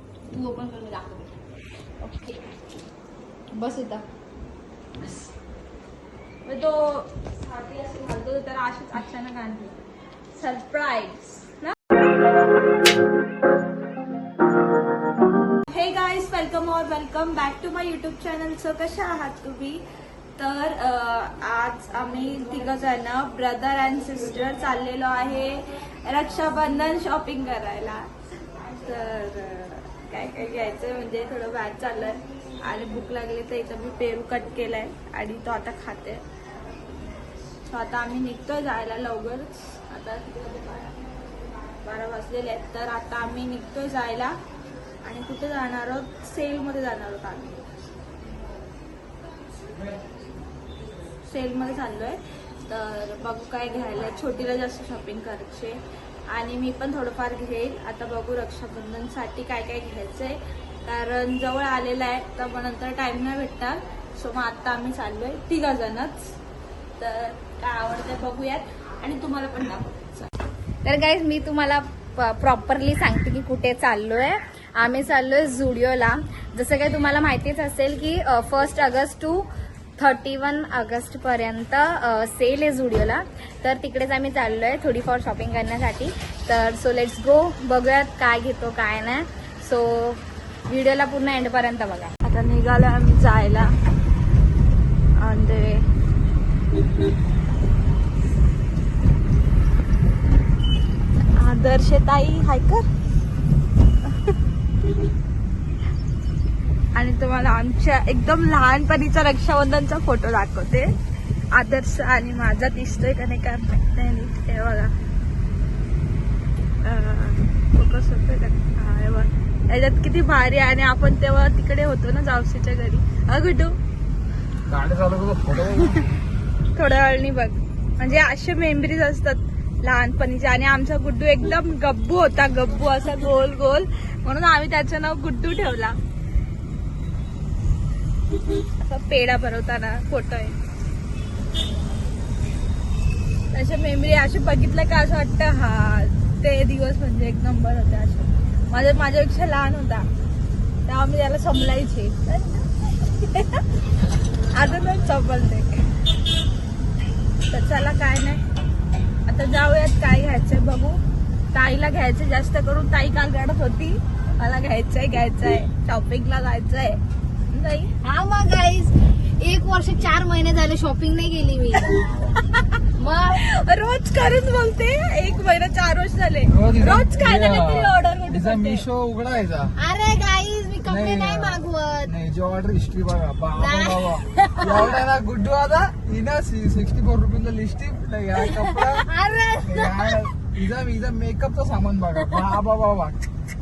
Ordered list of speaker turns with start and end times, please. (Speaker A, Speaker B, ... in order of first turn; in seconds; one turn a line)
Speaker A: 0.3-1.3
Speaker B: 2.0-2.4
Speaker A: 3.5-4.0
Speaker B: 5.0-5.3
Speaker B: 6.5-9.8
Speaker B: 10.3-11.8
Speaker B: 15.7-19.8
Speaker B: 20.4-28.1
Speaker B: 28.8-36.2
Speaker B: 37.7-41.0
Speaker B: 41.8-44.4
Speaker B: 45.0-47.6
Speaker B: 51.2-55.8
Speaker B: 56.3-66.3
Speaker B: 67.0-70.3
Speaker A: 70.8-92.1
Speaker B: 92.2-93.7
Speaker B: 95.2-95.9
Speaker B: 101.4-102.9
Speaker B: 107.0-110.9
Speaker B: 111.5-114.9
Speaker B: 116.8-123.8
Speaker C: 124.7-126.2
Speaker B: 126.7-136.0
Speaker B: 138.8-140.6
Speaker B: 143.5-150.1
Speaker B: 150.9-153.7
Speaker B: 154.5-155.8
Speaker B: 157.5-158.4
Speaker B: 159.3-161.0
Speaker B: 161.5-167.0
Speaker B: 167.5-167.9
Speaker A: 168.0-171.9
Speaker B: 171.9-172.7
Speaker A: 172.9-173.4
Speaker B: 173.3-178.9
Speaker C: 176.5-179.8
Speaker A: 179.8-182.1
Speaker C: 180.8-189.1
Speaker A: 183.6-185.0
Speaker A: 188.4-190.3
Speaker C: 189.6-193.3